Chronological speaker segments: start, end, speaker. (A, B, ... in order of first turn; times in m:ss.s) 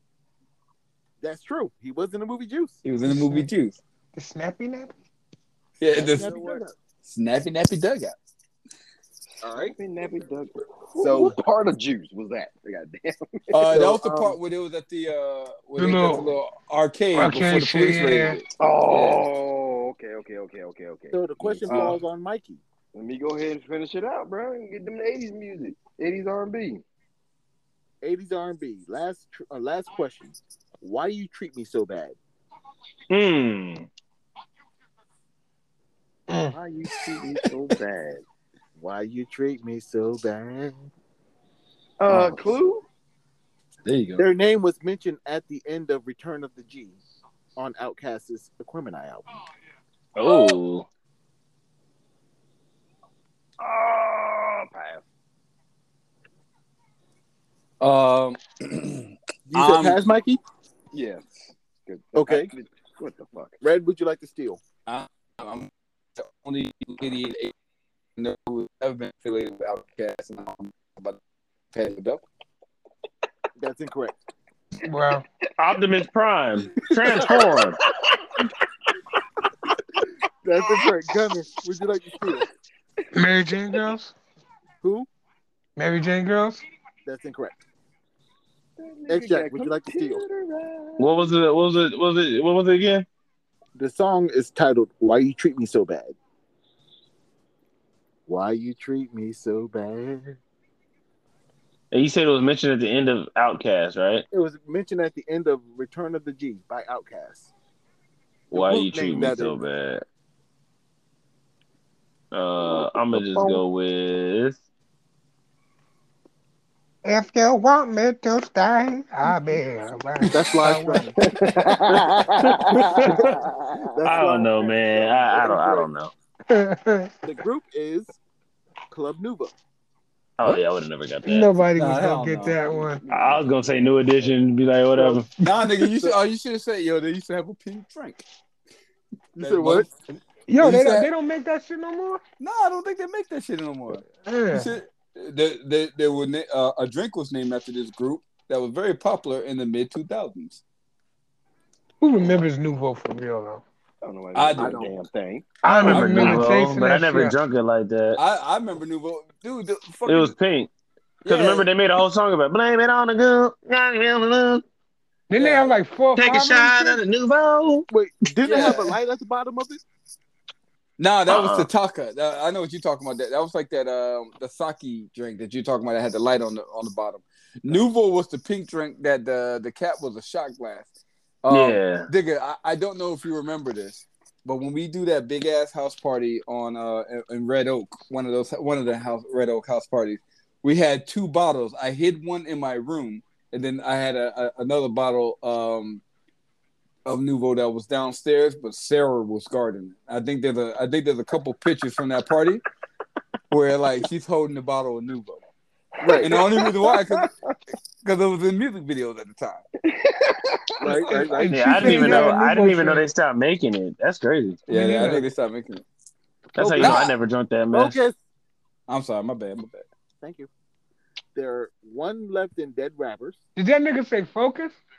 0:01.2-0:02.8 A
0:02.8-0:03.8 B
0:03.1-0:03.5 C
0:04.1-0:04.9 C
0:05.8-0:06.3 B
0:05.9-0:06.7 D
0:06.0-0:06.7 A
0:07.0-0:08.2 B
0:09.4-0:09.8 A
0:09.5-0:14.0 D
0:11.0-0:11.4 A
0:13.5-0:19.2 B
0:13.7-0:14.3 A
0:15.8-0:16.3 C
0:17.1-0:18.4 C
0:18.6-0:22.0 D
0:21.1-0:22.6 A
0:21.7-0:22.0 B
0:22.9-0:26.8 D
0:28.0-0:32.2 A
0:33.1-0:33.9 E
0:36.3-0:36.6 C
0:36.5-0:38.2 D
0:38.8-0:40.9 A
0:42.0-0:42.9 D
0:42.1-0:42.5 B
0:43.8-0:44.2 B
0:44.2-0:47.0 A
0:47.6-0:49.3 A
0:50.2-0:50.9 E
0:50.2-0:50.6 D
0:53.6-0:55.0 D
0:57.8-1:00.0 B
0:59.5-1:00.4 A
1:00.9-1:03.6 D
1:02.2-1:02.5 A
1:03.6-1:04.6 A
1:04.9-1:07.5 B
1:08.2-1:11.2 B
1:11.7-1:12.2 B
1:13.6-1:14.2 A
1:14.8-1:15.2 C
1:15.6-1:17.8 E
1:17.9-1:18.3 D
1:20.4-1:22.5 A
1:23.1-1:24.2 C
1:24.8-1:25.1 A
1:25.8-1:26.6 C
1:27.1-1:27.6 A
1:28.8-1:31.1 D
1:29.1-1:30.2 A
1:31.0-1:33.1 E
1:33.8-1:36.2 A
1:38.3-1:40.4 A
1:41.9-1:44.2 E
1:44.3-1:47.5 A
1:48.5-1:49.6 A
1:48.5-1:50.0 E
1:52.3-1:54.6 E
1:52.6-1:53.6 D
1:57.0-2:01.2 C
2:00.2-2:01.1 A
2:01.2-2:04.0 D
2:02.7-2:03.3 E
2:03.0-2:05.9 A
2:04.1-2:06.1 E
2:06.5-2:07.2 C
2:07.2-2:08.2 A
2:08.9-2:09.5 A
2:10.4-2:11.5 E
2:11.3-2:13.0 C
2:11.8-2:12.6 B
2:12.6-2:14.4 D
2:13.1-2:15.3 E
2:15.0-2:18.2 B
2:19.4-2:19.9 A
2:19.4-2:19.9 B
2:20.5-2:22.2 C
2:20.6-2:21.1 B
2:22.4-2:30.6 B
2:24.2-2:24.7 C
2:32.0-2:33.6 C
2:34.0-2:35.5 D
2:34.3-2:34.9 B
2:34.6-2:34.9 A
2:35.6-2:37.4 C
2:35.6-2:38.2 E
2:35.8-2:36.6 B
2:38.2-2:40.3 B
2:40.1-2:40.7 E
2:41.2-2:41.7 B
2:41.3-2:44.6 E
2:45.3-2:47.0 C
2:45.4-2:45.7 B
2:46.2-2:47.9 E
2:47.9-2:49.8 A
2:48.5-2:48.8 B
2:51.0-3:00.9 B
2:51.3-2:51.7 E
3:01.4-3:16.0 B
3:01.5-3:02.1 E
3:17.0-3:22.6 B
3:23.5-3:25.4 B
3:26.0-3:27.3 D
3:26.0-3:26.5 A
3:26.2-3:27.3 B
3:28.0-3:29.6 B
3:29.8-3:31.1 D
3:30.8-3:32.4 A
3:31.0-3:33.1 C
3:31.4-3:34.6 E
3:34.7-3:35.8 B
3:34.7-3:35.3 C
3:36.6-3:38.0 E
3:36.6-3:37.1 A
3:36.8-3:37.1 B
3:37.7-3:38.2 A
3:38.9-3:39.9 B
3:40.2-3:40.5 A
3:41.4-3:43.4 A
3:43.6-3:44.8 C